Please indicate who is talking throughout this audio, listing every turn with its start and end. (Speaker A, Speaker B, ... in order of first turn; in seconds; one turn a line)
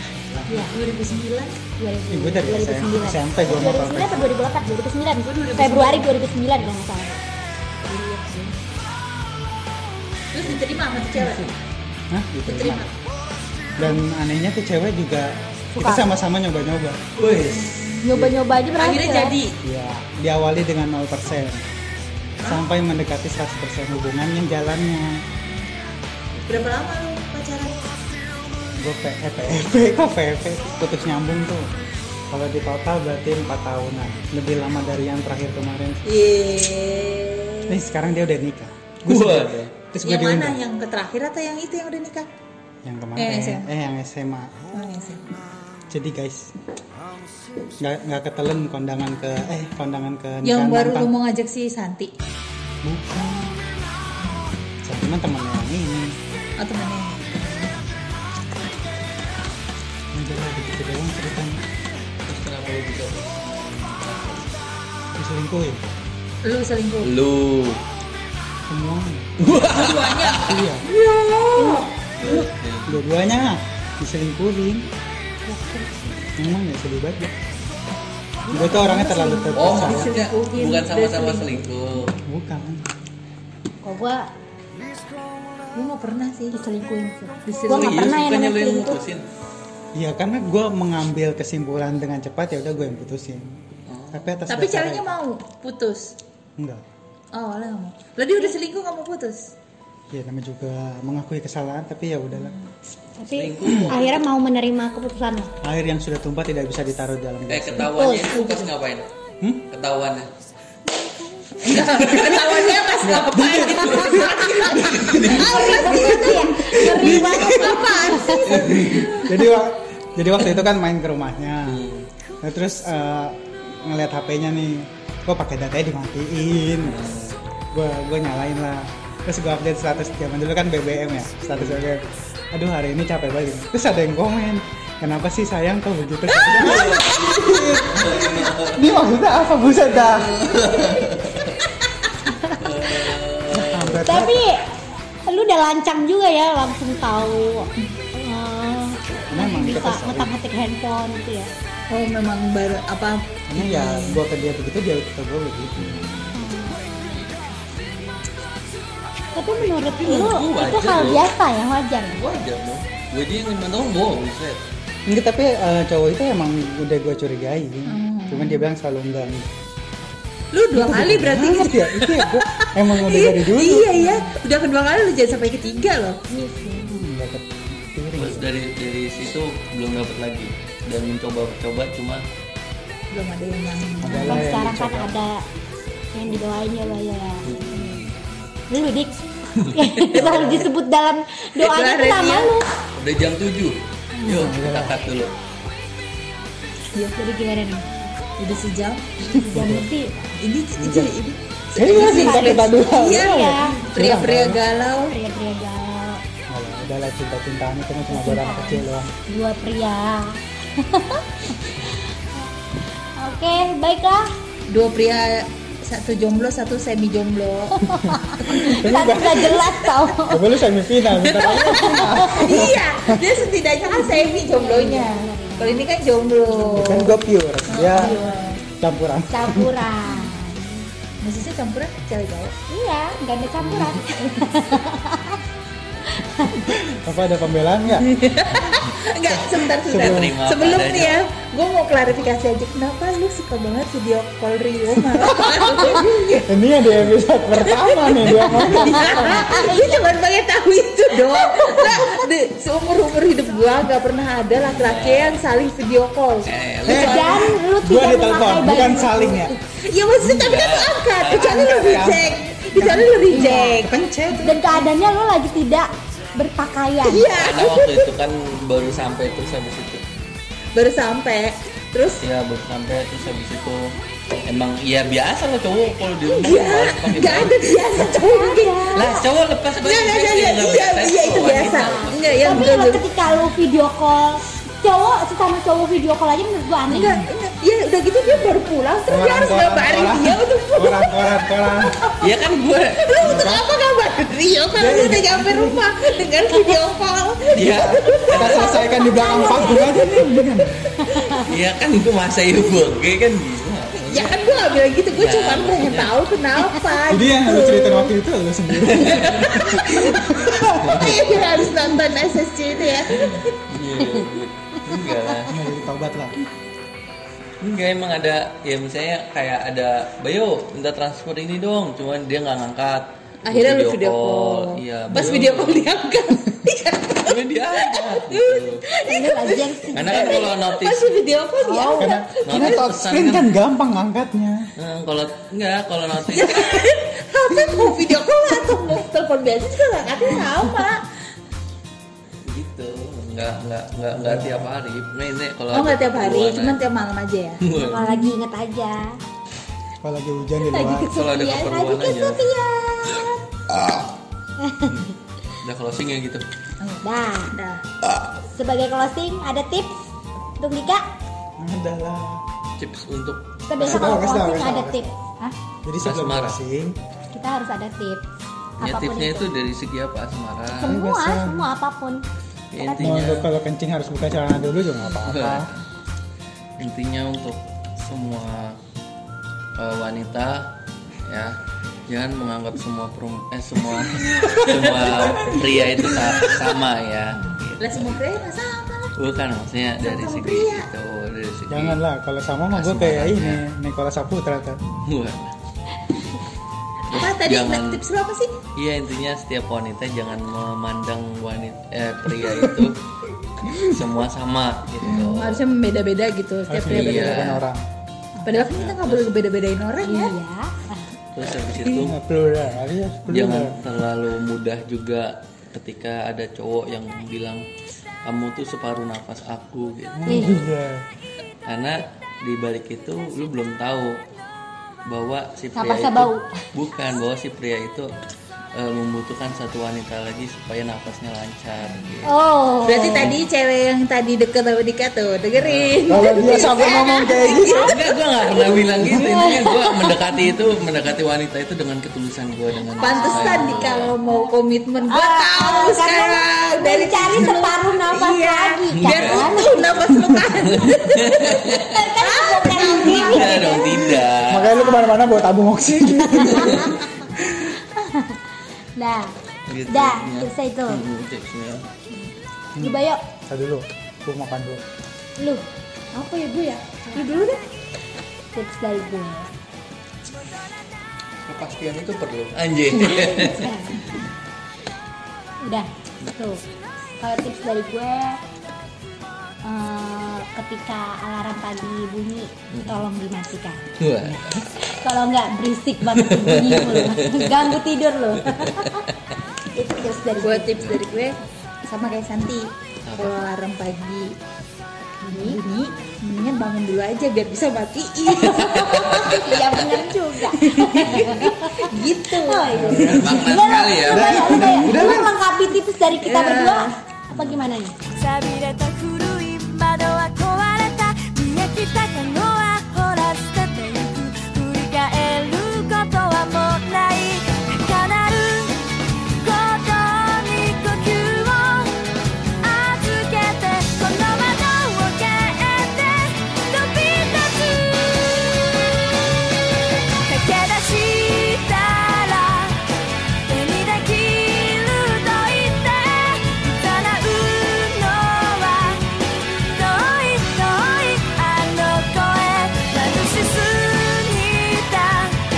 Speaker A: 0.2-0.7
Speaker B: 0.5-1.6
Speaker C: 1.8-7.2
Speaker A: 2.1-4.5
Speaker B: 5.2-6.2
Speaker B: 7.9-8.6
Speaker B: 10.3-11.5
Speaker A: 12.1-12.9
Speaker B: 12.5-12.9
Speaker A: 13.8-17.0
Speaker C: 15.8-16.1
Speaker D: 17.2-17.7
Speaker B: 17.2-18.1
Speaker C: 18.0-19.4
Speaker B: 18.8-19.6
Speaker A: 19.6-21.6
Speaker A: 22.4-25.2
Speaker B: 26.4-27.8
Speaker A: 28.8-31.7
Speaker A: 32.3-36.0
Speaker B: 36.1-37.8
Speaker A: 37.7-40.6
Speaker D: 39.0-39.7
Speaker B: 40.0-42.3
Speaker A: 42.8-44.5
Speaker B: 43.2-43.7
Speaker B: 44.7-45.3
Speaker A: 45.9-46.5
Speaker A: 47.8-51.1
Speaker B: 50.4-52.1
Speaker A: 52.8-53.6
Speaker A: 54.8-56.2
Speaker B: 56.6-57.7
Speaker A: 60.1-61.6
Speaker D: 62.3-64.5
Speaker A: 65.2-65.8
Speaker B: 66.4-67.1
Speaker D: 67.0-67.8
Speaker A: 68.7-69.6
Speaker D: 69.4-70.7
Speaker B: 69.6-72.5
Speaker A: 70.4-70.8
Speaker C: 71.6-71.9
Speaker D: 72.2-73.0
Speaker A: 72.9-74.9
Speaker C: 75.5-75.9
Speaker A: 76.3-77.3
Speaker B: 78.5-81.7
Speaker A: 78.5-80.1
Speaker D: 79.5-82.2
Speaker A: 82.2-82.9
Speaker C: 83.8-84.3
Speaker B: 85.7-86.6
Speaker C: 86.5-89.0
Speaker B: 87.5-88.1
Speaker D: 87.7-89.2
Speaker A: 90.0-95.2
Speaker D: 93.9-94.4
Speaker B: 94.5-96.2
Speaker A: 96.6-96.8
Speaker B: 97.3-99.5
Speaker A: 100.1-102.6
Speaker B: 102.4-102.7
Speaker C: 103.2-105.5
Speaker D: 103.3-104.2
Speaker A: 105.6-108.0
Speaker D: 107.5-109.0
Speaker C: 107.8-108.7
Speaker D: 109.7-110.3
Speaker B: 111.6-119.4
Speaker D: 111.7-112.7
Speaker A: 113.0-121.9
Speaker D: 113.7-115.7
Speaker C: 115.2-118.4
Speaker D: 118.5-119.2
Speaker D: 121.7-122.1
Speaker A: 122.4-127.0
Speaker D: 126.8-127.4
Speaker A: 127.7-140.6
Speaker D: 136.3-139.0
Speaker D: 139.9-141.6
Speaker D: 142.5-144.1
Speaker A: 143.5-144.6
Speaker C: 144.1-151.5
Speaker A: 149.3-150.3
Speaker B: 151.9-154.2
Speaker A: 153.5-155.9
Speaker C: 156.3-156.8
Speaker C: 159.3-162.2
Speaker D: 159.8-161.3
Speaker D: 162.1-164.6
Speaker A: 165.1-169.5
Speaker B: 167.9-168.7
Speaker B: 170.5-176.3
Speaker A: 170.7-174.1
Speaker C: 174.0-174.3
Speaker C: 176.3-177.1
Speaker A: 176.8-178.5
Speaker D: 178.2-182.2
Speaker B: 183.1-184.4
Speaker A: 184.0-185.2
Speaker C: 184.1-185.4
Speaker C: 186.1-187.5
Speaker D: 187.4-188.1
Speaker C: 188.7-192.7
Speaker D: 189.6-190.7
Speaker B: 191.6-192.6
Speaker D: 193.0-195.3
Speaker A: 194.2-195.0
Speaker C: 197.2-197.9
Speaker B: 198.4-199.3
Speaker C: 199.3-200.4
Speaker A: 199.4-199.9
Speaker B: 200.4-205.2
Speaker A: 200.8-201.2
Speaker A: 201.8-204.6
Speaker C: 201.8-203.8
Speaker C: 205.0-206.2
Speaker A: 206.5-209.1
Speaker C: 208.1-212.0
Speaker C: 213.0-214.3
Speaker B: 214.7-218.5
Speaker C: 217.8-220.5
Speaker A: 218.0-223.2
Speaker B: 219.5-219.9
Speaker B: 221.1-228.6
Speaker C: 221.8-222.7
Speaker C: 223.8-225.9
Speaker A: 226.6-229.8
Speaker C: 227.9-228.4
Speaker C: 229.3-230.9
Speaker B: 231.2-232.6
Speaker C: 232.7-235.4
Speaker A: 233.6-234.0
Speaker B: 234.1-234.6
Speaker C: 236.1-236.6
Speaker A: 236.7-238.2
Speaker B: 238.0-246.7
Speaker D: 238.7-241.3
Speaker A: 239.8-240.4
Speaker A: 246.5-249.4
Speaker B: 247.6-257.6
Speaker C: 248.6-250.1
Speaker C: 251.3-252.1
Speaker D: 254.6-255.4
Speaker D: 256.4-257.4
Speaker A: 256.9-259.5
Speaker C: 256.9-259.5
Speaker B: 259.7-264.0
Speaker D: 260.2-262.3
Speaker A: 261.4-264.8
Speaker C: 263.3-267.3
Speaker B: 267.0-268.1
Speaker D: 267.3-270.0
Speaker B: 270.8-272.2
Speaker D: 272.2-277.8
Speaker B: 276.3-279.0
Speaker C: 277.9-279.2
Speaker D: 278.9-282.9
Speaker B: 279.8-283.1
Speaker C: 281.7-287.3
Speaker B: 286.9-292.3
Speaker A: 289.1-292.0
Speaker D: 292.2-293.5
Speaker B: 293.0-301.5
Speaker A: 293.2-293.7
Speaker A: 294.8-295.8
Speaker D: 297.5-298.8
Speaker A: 297.6-300.9
Speaker C: 299.2-299.9
Speaker D: 301.3-304.4
Speaker B: 303.9-308.1
Speaker D: 305.1-306.2
Speaker A: 307.1-311.2
Speaker D: 308.7-309.8
Speaker B: 309.3-310.3
Speaker D: 310.8-312.1
Speaker B: 310.8-313.6
Speaker D: 312.9-315.6
Speaker A: 315.5-316.4
Speaker D: 317.6-326.0
Speaker B: 323.5-332.9
Speaker A: 325.1-325.4
Speaker D: 327.2-328.9
Speaker C: 329.0-330.4
Speaker D: 329.9-331.1
Speaker C: 331.6-332.0
Speaker A: 331.9-334.7
Speaker D: 332.4-333.5
Speaker D: 334.8-336.9
Speaker B: 336.3-341.1
Speaker D: 342.4-346.8
Speaker A: 344.1-344.7
Speaker B: 345.7-348.3
Speaker D: 347.6-348.1
Speaker C: 347.8-349.2
Speaker A: 350.0-351.1
Speaker B: 350.6-351.6
Speaker D: 351.1-352.5
Speaker C: 351.2-353.4
Speaker D: 353.1-354.1
Speaker C: 354.6-355.1
Speaker D: 354.9-356.4
Speaker B: 356.8-357.9
Speaker C: 357.0-357.5
Speaker C: 358.5-360.0
Speaker C: 360.6-361.1
Speaker A: 361.6-362.4
Speaker D: 362.8-364.2
Speaker C: 363.7-365.6
Speaker A: 363.8-365.1
Speaker A: 365.8-367.0
Speaker D: 366.0-366.6
Speaker C: 367.3-368.2
Speaker C: 368.8-369.5
Speaker D: 368.8-371.0
Speaker C: 370.7-372.2
Speaker A: 370.8-371.7
Speaker D: 372.7-373.5
Speaker C: 372.8-373.2
Speaker A: 373.0-375.7
Speaker D: 375.1-375.8
Speaker D: 376.8-378.8
Speaker D: 379.8-380.7
Speaker D: 381.3-381.6
Speaker D: 382.1-388.2
Speaker A: 384.2-386.4
Speaker B: 385.2-385.7
Speaker B: 387.8-389.1
Speaker D: 389.2-392.0
Speaker B: 390.0-390.9
Speaker A: 391.7-394.8
Speaker D: 392.7-393.6
Speaker D: 395.0-395.6
Speaker D: 397.1-398.0
Speaker B: 397.1-398.6
Speaker D: 398.8-403.0
Speaker A: 402.5-402.9
Speaker D: 403.6-405.7
Speaker A: 403.7-404.0
Speaker B: 405.0-407.6
Speaker A: 406.7-407.9
Speaker D: 406.8-407.6
Speaker B: 408.4-410.4
Speaker D: 408.6-409.3
Speaker C: 410.0-411.1
Speaker D: 411.4-412.2
Speaker A: 411.9-413.8
Speaker D: 413.3-417.6
Speaker D: 418.2-420.7
Speaker A: 420.2-421.1
Speaker C: 420.3-420.6
Speaker D: 421.7-424.2
Speaker D: 425.1-428.1
Speaker C: 425.8-426.7
Speaker D: 428.7-432.3
Speaker C: 432.2-433.4
Speaker B: 432.8-438.9
Speaker D: 432.9-433.4
Speaker D: 435.5-436.6
Speaker A: 436.1-437.9
Speaker D: 437.7-444.1
Speaker C: 439.1-440.4
Speaker C: 443.0-449.9
Speaker B: 443.0-454.1
Speaker D: 448.9-451.9
Speaker C: 451.8-455.3
Speaker D: 452.9-454.8
Speaker A: 454.2-457.7
Speaker C: 456.0-457.2
Speaker D: 456.6-456.9
Speaker C: 457.8-458.4
Speaker C: 459.0-459.3
Speaker D: 459.7-461.9
Speaker C: 459.9-461.0
Speaker A: 462.8-464.8
Speaker C: 462.8-463.2
Speaker C: 465.4-465.6
Speaker B: 466.1-467.7
Speaker C: 468.5-469.5
Speaker D: 471.5-473.7
Speaker C: 473.2-474.2
Speaker C: 475.6-476.6
Speaker C: 477.2-478.4
Speaker C: 479.6-483.8
Speaker D: 482.7-483.1
Speaker D: 484.0-484.7
Speaker C: 484.4-489.0
Speaker D: 486.1-487.8
Speaker D: 488.4-489.0
Speaker C: 489.7-490.8
Speaker B: 490.4-494.4
Speaker D: 493.1-493.4
Speaker B: 495.2-503.6
Speaker C: 495.3-495.9
Speaker D: 498.4-499.7
Speaker C: 498.6-507.9
Speaker D: 501.0-501.5
Speaker A: 502.7-503.3
Speaker D: 502.9-504.8
Speaker A: 504.0-505.4
Speaker B: 506.2-506.9
Speaker D: 507.3-507.6
Speaker E: 508.1-518.8
Speaker E: 519.4-522.0
Speaker E: 522.6-528.8
Speaker E: 530.2-532.8
Speaker E: 533.5-545.4